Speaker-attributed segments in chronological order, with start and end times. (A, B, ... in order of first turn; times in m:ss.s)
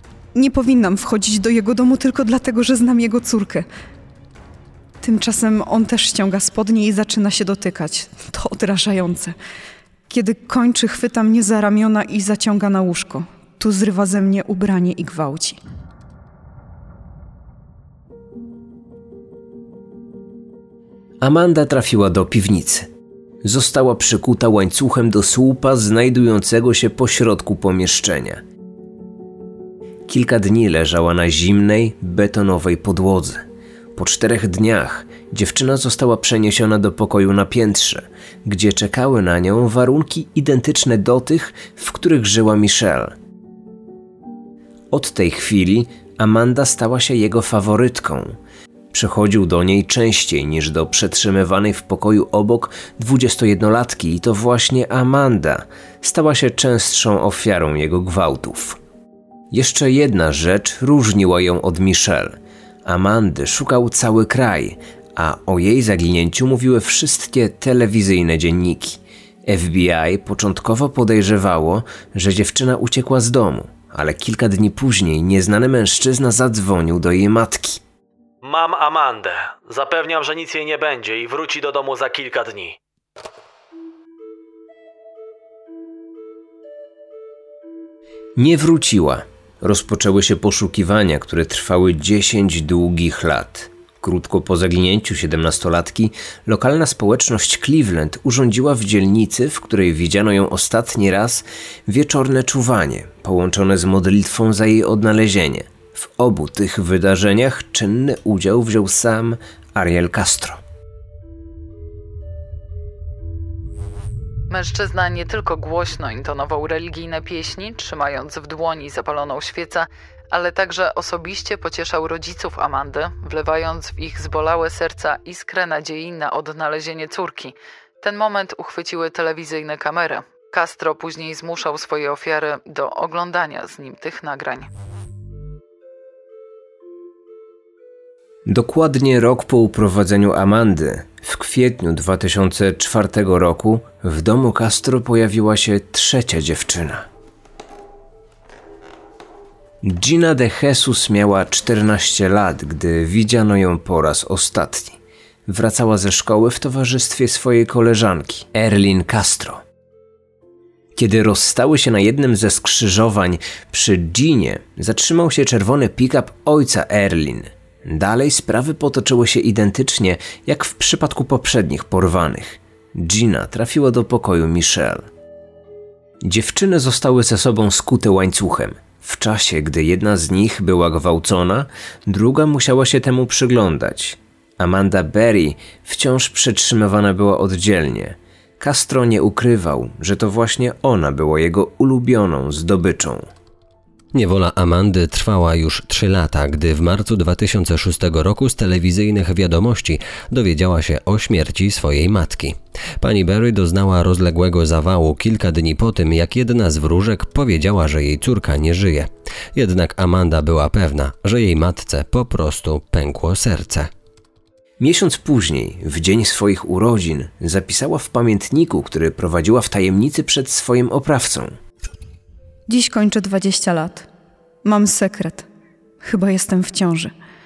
0:00.3-0:03.7 A
0:05.0-0:09.3 A
0:10.1-0:15.6 A
0:21.2-0:22.9 B
0:23.4-0:28.4 B
0:30.1-0:33.4 B
0:33.9-0:43.1 B
0:44.9-0:48.4 B
0:48.9-0:58.8 B
0:59.5-1:17.8 B
1:18.4-1:22.8 C
1:28.4-1:50.6 B
1:54.5-2:14.7 D
2:18.4-2:27.1 B
2:29.8-2:39.6 B
2:40.9-2:55.1 B
2:56.2-3:13.3 B
3:14.1-3:33.9 E
3:34.8-3:41.5 B
3:42.7-3:44.1 A
3:44.6-3:45.5 A
3:46.0-3:47.1 A